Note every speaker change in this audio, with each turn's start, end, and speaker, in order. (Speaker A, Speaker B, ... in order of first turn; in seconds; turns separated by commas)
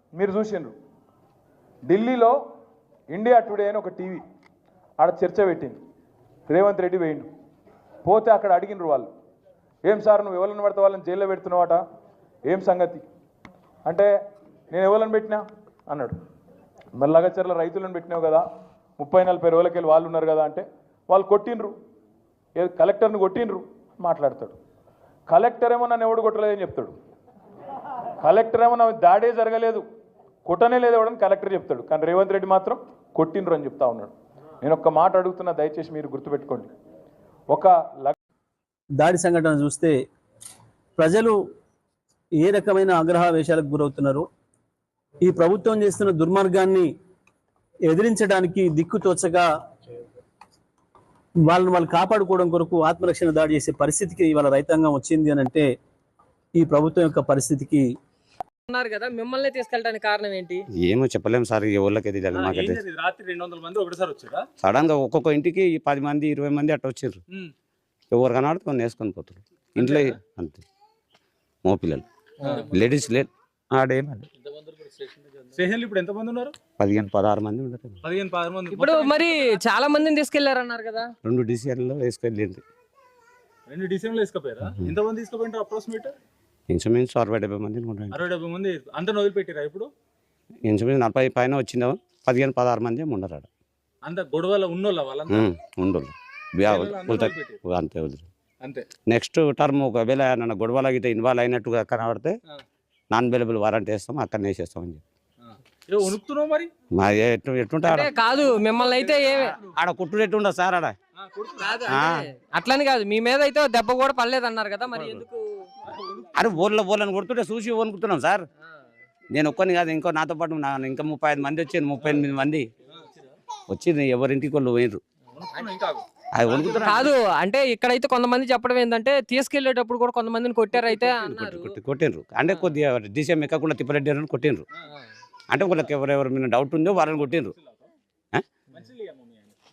Speaker A: 0.1-0.7, Speaker A: 1.9-2.4, Speaker A: 3.1-4.2, Speaker A: 5.0-5.8, Speaker A: 6.5-7.3, Speaker A: 8.0-9.1, Speaker A: 9.9-11.8, Speaker A: 12.5-13.0, Speaker A: 13.8-14.1, Speaker A: 14.7-16.1, Speaker A: 17.0-18.4, Speaker A: 19.0-21.7, Speaker A: 22.6-24.6, Speaker A: 25.3-26.9, Speaker A: 28.2-29.8, Speaker A: 30.4-34.1, Speaker A: 34.6-36.7, Speaker A: 37.5-38.2, Speaker B: 39.0-40.0, Speaker B: 41.0-41.4, Speaker B: 42.4-44.3, Speaker B: 45.2-46.9, Speaker B: 47.9-49.5, Speaker B: 51.4-55.7, Speaker B: 56.6-57.9, Speaker C: 58.7-60.7, Speaker D: 60.8-62.8, Speaker E: 62.3-64.5, Speaker D: 64.6-67.2, Speaker D: 68.1-70.7, Speaker E: 69.8-70.1, Speaker D: 71.7-72.0, Speaker E: 72.4-72.7, Speaker D: 72.7-74.3, Speaker E: 74.4-76.6, Speaker D: 76.8-78.0, Speaker E: 78.0-79.6, Speaker C: 78.7-81.1, Speaker D: 81.2-82.6, Speaker E: 83.7-86.2, Speaker D: 86.7-88.2, Speaker E: 88.1-89.9, Speaker D: 90.7-93.5, Speaker E: 94.0-95.5, Speaker D: 95.3-98.2, Speaker E: 96.7-97.6, Speaker E: 98.6-98.9, Speaker D: 99.1-102.4, Speaker D: 103.1-105.0, Speaker E: 105.4-106.7, Speaker D: 107.0-108.1, Speaker C: 107.8-109.6, Speaker D: 109.6-111.0, Speaker E: 111.2-112.0, Speaker C: 111.6-115.4, Speaker D: 111.9-112.3, Speaker E: 115.9-116.3, Speaker D: 116.3-118.5, Speaker D: 119.3-122.7, Speaker D: 123.7-125.0, Speaker E: 125.3-126.8, Speaker D: 126.3-127.1, Speaker C: 126.7-131.7, Speaker D: 130.8-134.7, Speaker D: 135.5-137.5, Speaker E: 137.6-137.9, Speaker E: 138.7-139.6